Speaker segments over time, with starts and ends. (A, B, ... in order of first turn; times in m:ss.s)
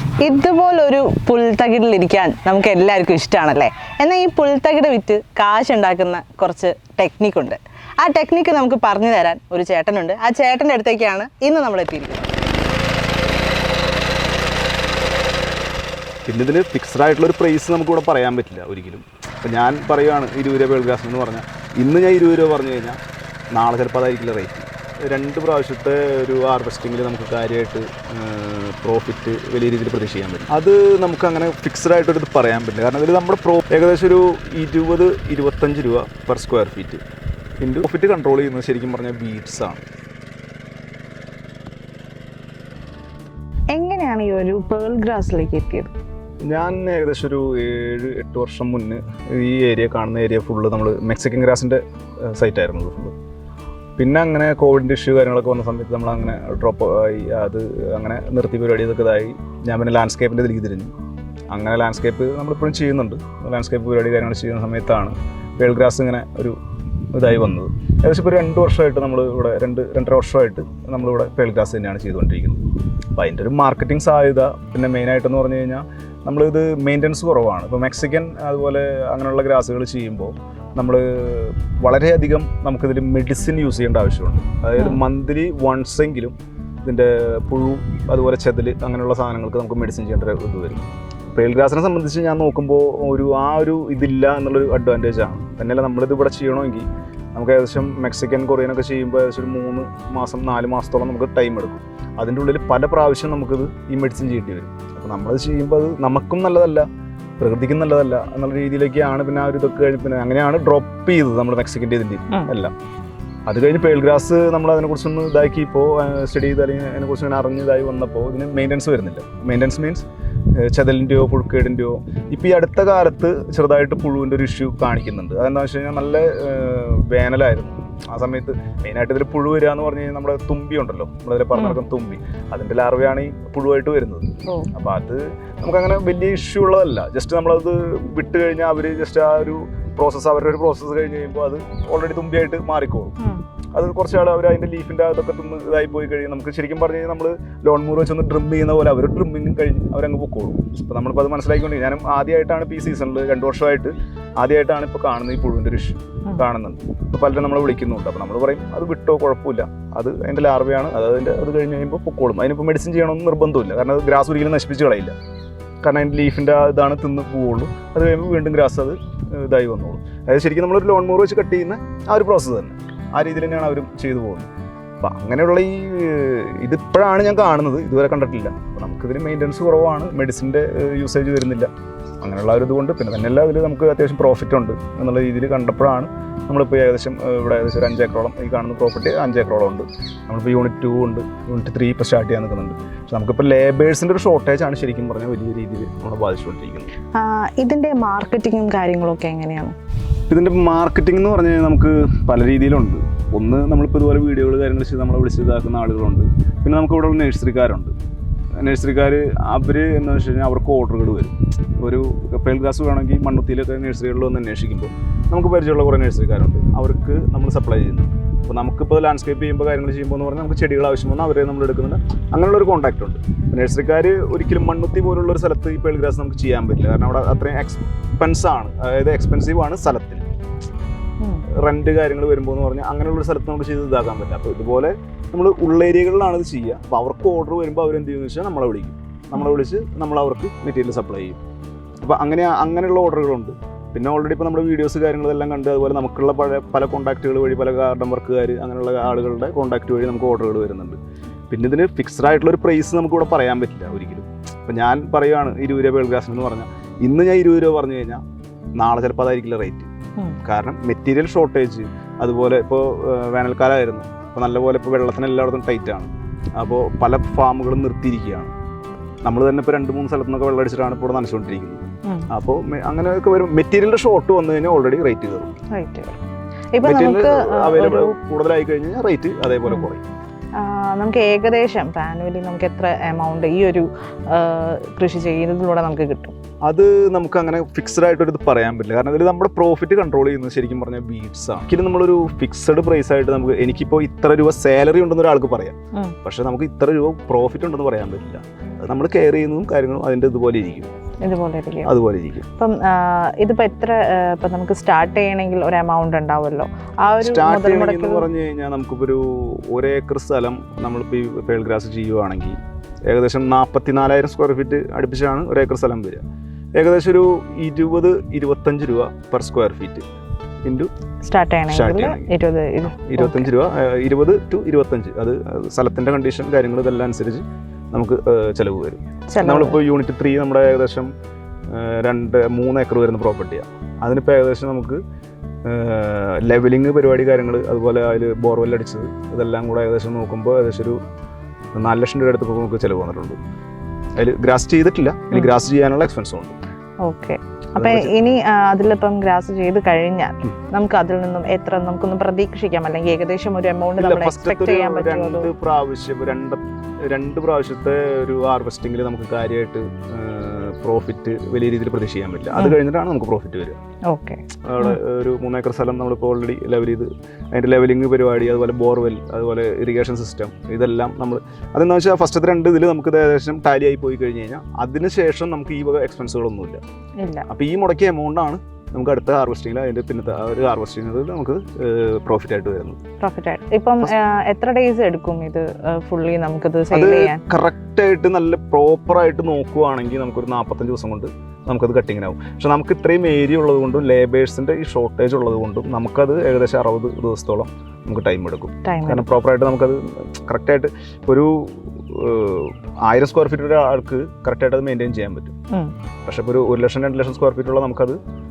0:00.2-0:12.3 A
0:16.3-0:23.0 B
0:23.5-0:37.0 B
0:37.6-0:39.8 B
0:43.7-0:45.9 A
0:46.5-0:53.2 B
0:54.0-1:00.9 B
1:01.5-1:06.6 B
1:07.1-1:12.6 B
1:13.2-1:46.9 B
1:47.4-1:52.7 B
1:53.5-2:23.2 B
2:11.5-2:11.8 A
2:14.5-2:14.7 A
2:23.7-2:45.2 B
2:45.8-2:54.5 B
2:55.0-3:01.7 B
3:02.2-3:16.9 B
3:17.2-3:19.7 A
3:20.3-3:27.9 B
3:28.6-3:50.3 B
3:51.2-3:51.5 A
3:51.5-4:01.4 B
4:02.0-4:11.0 B
4:11.5-4:18.2 B
4:18.8-4:19.9 B
4:20.4-4:28.5 B
4:29.2-4:35.5 B
4:35.7-4:36.2 A
4:36.7-4:38.2 A
4:36.8-4:40.0 B
4:40.6-4:46.4 A
4:46.6-5:00.9 B
5:01.2-5:01.9 A
5:01.8-5:02.5 B
5:02.6-5:08.3 A
5:07.2-5:16.2 B
5:16.8-5:20.0 B
5:21.2-5:23.5 A
5:21.7-5:22.3 B
5:23.0-5:31.1 B
5:29.3-5:29.8 A
5:31.7-5:35.0 B
5:35.6-5:41.0 B
5:41.7-5:43.4 B
5:44.2-5:46.6 B
5:47.0-5:55.5 A
5:47.8-5:48.1 B
5:54.0-6:03.8 B
6:04.1-6:05.0 A
6:04.7-6:16.8 B
6:17.2-6:17.5 A
6:17.5-6:23.0 B
6:23.2-6:27.4 A
6:26.9-6:45.5 B
6:38.8-6:39.2 A
6:46.3-6:48.2 B